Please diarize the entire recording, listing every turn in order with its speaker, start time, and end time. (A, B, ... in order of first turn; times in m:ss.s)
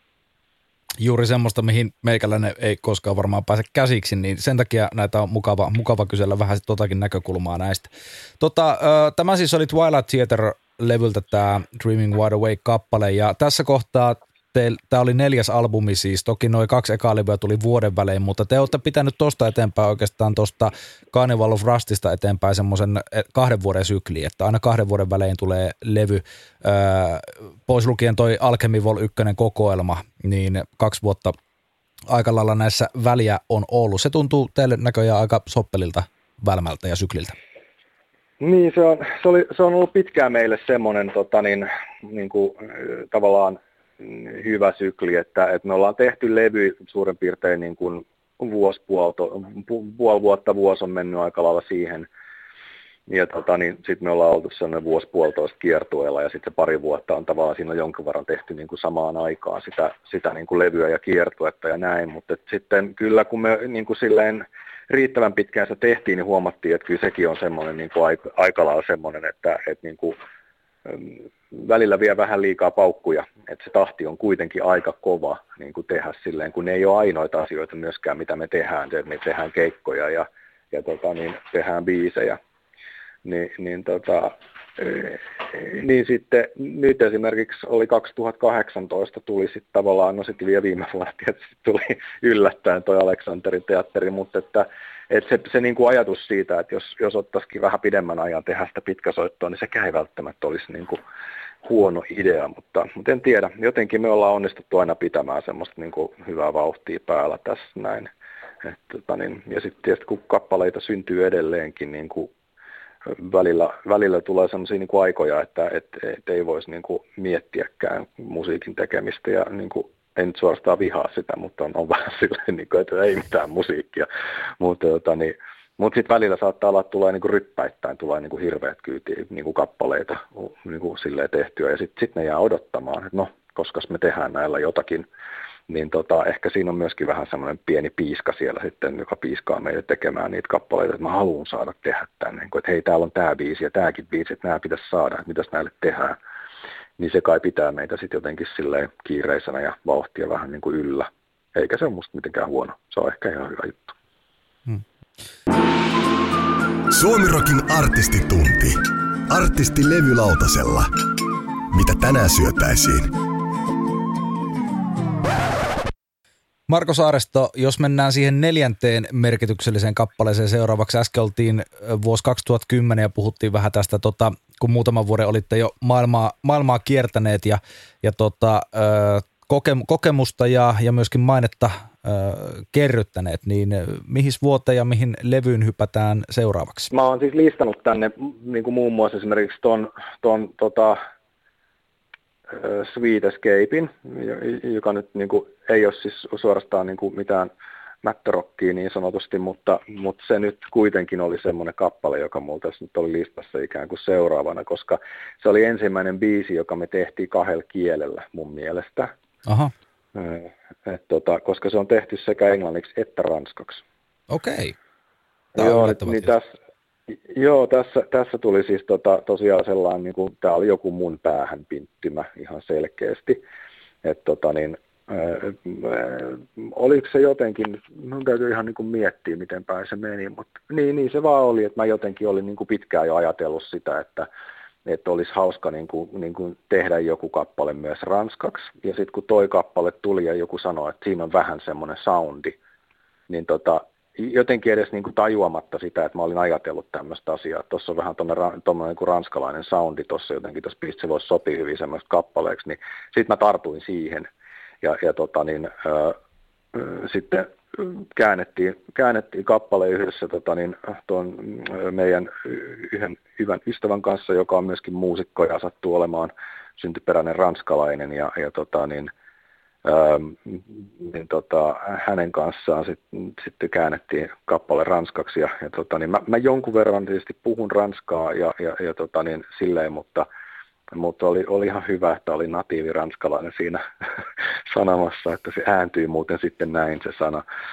0:01.0-0:07.9 A
0:08.4-0:31.3 A
0:32.1-0:37.3 A
0:38.4-0:52.1 B
0:53.1-1:10.2 B
1:10.8-1:22.4 B
1:23.2-1:41.0 B
1:41.6-1:48.1 B
1:48.6-1:52.3 B
1:53.0-2:04.1 B
2:04.6-2:15.0 B
2:15.7-2:26.2 B
2:27.0-2:33.9 B
2:36.9-2:40.9 C
2:41.7-2:43.1 C
2:46.7-3:06.9 A
3:06.9-3:11.0 B
3:12.5-3:17.5 B
3:18.0-3:29.1 B
3:29.4-3:29.7 A
3:30.1-3:33.8 B
3:34.3-3:34.8 A
3:35.5-3:36.5 B
3:35.6-3:36.3 A
3:37.1-3:43.4 B
3:44.0-3:54.3 B
3:54.8-4:02.6 B
4:03.3-4:14.3 B
4:14.8-4:16.2 B
4:16.7-4:29.1 B
4:29.8-4:40.2 B
4:40.9-4:47.4 B